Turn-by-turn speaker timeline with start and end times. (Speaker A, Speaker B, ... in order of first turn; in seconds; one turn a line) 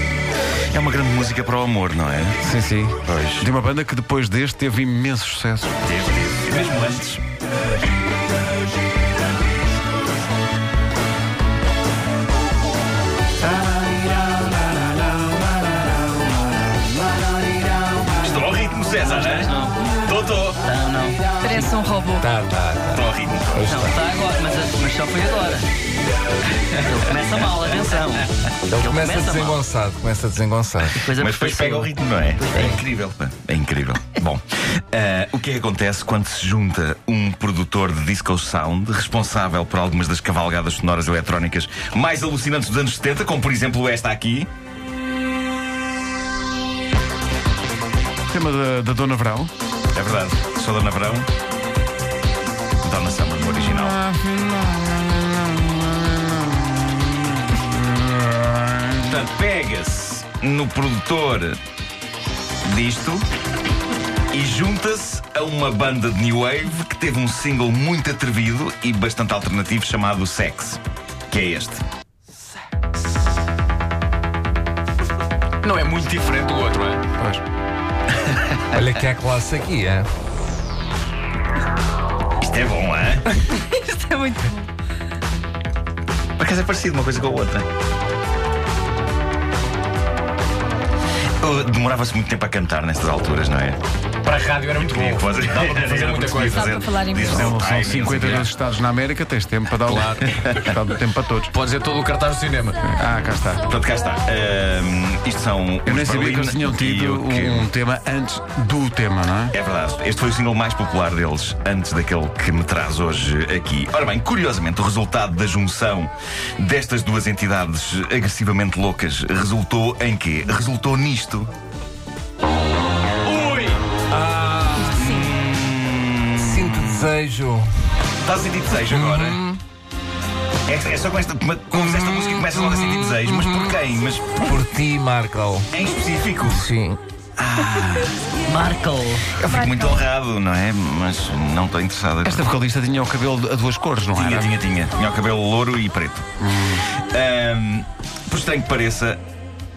Speaker A: 0.7-2.4
Speaker B: 2.4-5.8
Speaker A: 3.0-3.5
Speaker A: 5.8-7.2
Speaker A: 18.2-19.5
Speaker C: 19.0-19.8
Speaker A: 20.0-20.6
Speaker C: 20.6-21.8
Speaker D: 21.4-22.2
Speaker E: 22.1-24.0
Speaker A: 22.9-23.8
Speaker C: 23.7-25.7
Speaker C: 26.8-29.6
Speaker A: 27.3-27.9
Speaker E: 28.7-31.0
Speaker C: 30.9-32.8
Speaker A: 31.1-44.5
Speaker B: 48.3-49.5
Speaker A: 49.9-51.3
Speaker A: 52.8-54.0
Speaker B: 53.4-59.1
Speaker A: 59.0-61.6
Speaker A: 62.6-63.2
Speaker A: 64.3-71.8
Speaker F: 75.6-77.0
Speaker B: 77.2-77.4
Speaker A: 78.2-78.8
Speaker E: 78.7-80.1
Speaker A: 82.4-83.3
Speaker D: 83.6-84.7
Speaker A: 86.4-87.7
Speaker A: 91.4-93.8
Speaker F: 94.2-96.8
Speaker A: 94.8-98.5
Speaker D: 96.6-97.4
Speaker B: 97.3-101.5
Speaker F: 99.8-100.3
Speaker F: 101.5-102.8
Speaker B: 102.8-103.7
Speaker A: 103.7-107.7
Speaker B: 105.8-109.5
Speaker A: 109.5-121.5
Speaker F: 123.2-125.0
Speaker A: 125.0-127.1
Speaker E: 126.4-127.7
Speaker A: 128.2-129.4
Speaker E: 128.9-129.6
Speaker A: 130.7-134.4
Speaker E: 134.4-135.7
Speaker A: 135.7-136.7
Speaker E: 136.5-137.0
Speaker A: 137.4-138.2
Speaker C: 138.5-139.3
Speaker A: 139.3-142.4
Speaker B: 142.2-144.5
Speaker A: 144.1-146.3
Speaker B: 146.4-146.8
Speaker A: 146.9-149.2